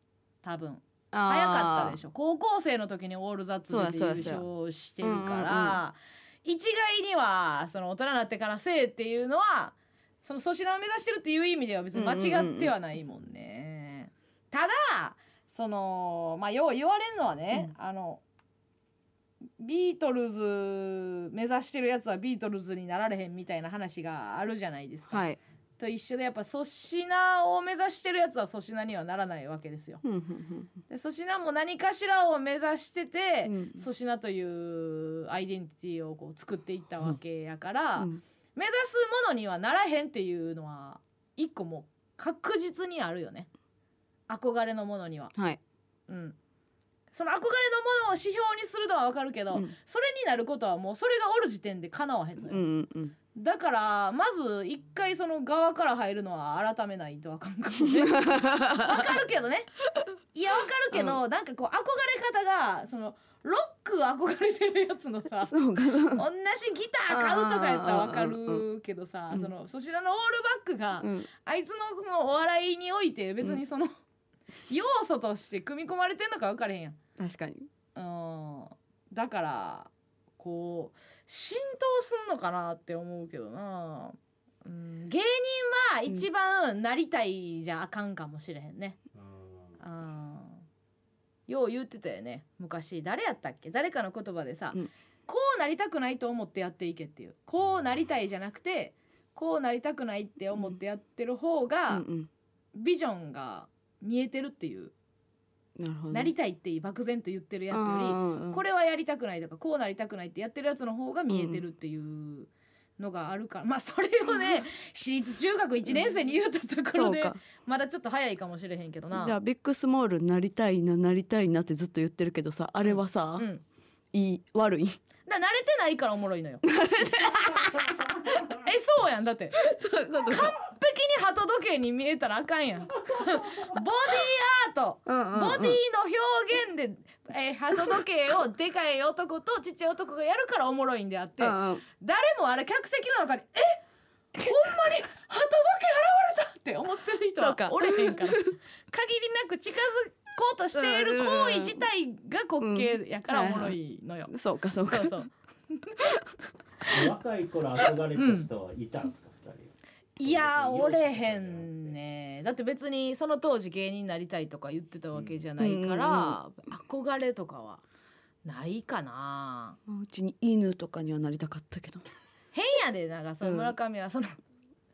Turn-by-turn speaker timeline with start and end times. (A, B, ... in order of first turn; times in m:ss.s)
0:00.4-0:18.2 A
0:01.1-0:02.0 B
0:03.7-0:04.4 B
0:05.0-0:05.8 B
0:11.9-0:12.7 B
0:19.6-0:25.2 A
0:25.1-0:25.4 B
0:25.8-0:30.0 A
0:30.0-0:30.7 B
0:30.9-0:43.5 A
0:33.4-0:33.8 B
0:44.3-0:45.3 A
0:45.3-0:45.6 B
0:46.1-0:46.4 A
0:47.1-0:52.6 A
0:52.5-0:53.1 B
0:53.3-0:59.7 A
0:58.0-0:59.1 B
1:00.3-1:05.5 A
1:00.9-1:01.2 B
1:05.5-1:06.2 B
1:06.1-1:13.9 A
1:07.1-1:08.6 B
1:11.0-1:11.3 B
1:14.7-1:17.0 A
1:17.2-1:17.7 B
1:17.9-1:29.0 A
1:29.1-1:29.8 C
1:29.8-1:30.6 A
1:31.5-1:42.0 A
1:41.9-1:42.3 B
1:42.7-1:44.9 A
1:45.8-1:46.3 B
1:46.1-1:59.4 A
1:47.7-1:48.6 B
1:51.3-1:51.6 B
1:56.9-1:57.4 B
1:59.1-2:03.5 B
2:02.8-2:03.6 A
2:04.1-2:05.0 B
2:05.2-2:06.6 A
2:06.6-2:07.7 B
2:08.2-2:09.6 A
2:09.6-2:10.5 B
2:10.3-2:23.8 A
2:15.0-2:15.8 B
2:21.4-2:21.8 B
2:24.3-2:34.3 A
2:27.4-2:28.5 B
2:30.7-2:31.8 B
2:32.6-2:33.8 B
2:34.3-2:35.2 B
2:34.9-2:36.0 A
2:36.8-2:41.9 C
2:38.1-2:38.5 A
2:40.2-2:47.8 A
2:45.6-2:46.4 B
2:48.4-2:49.8 A
2:49.9-2:52.0 B
2:52.5-2:54.4 A
2:53.4-2:53.7 B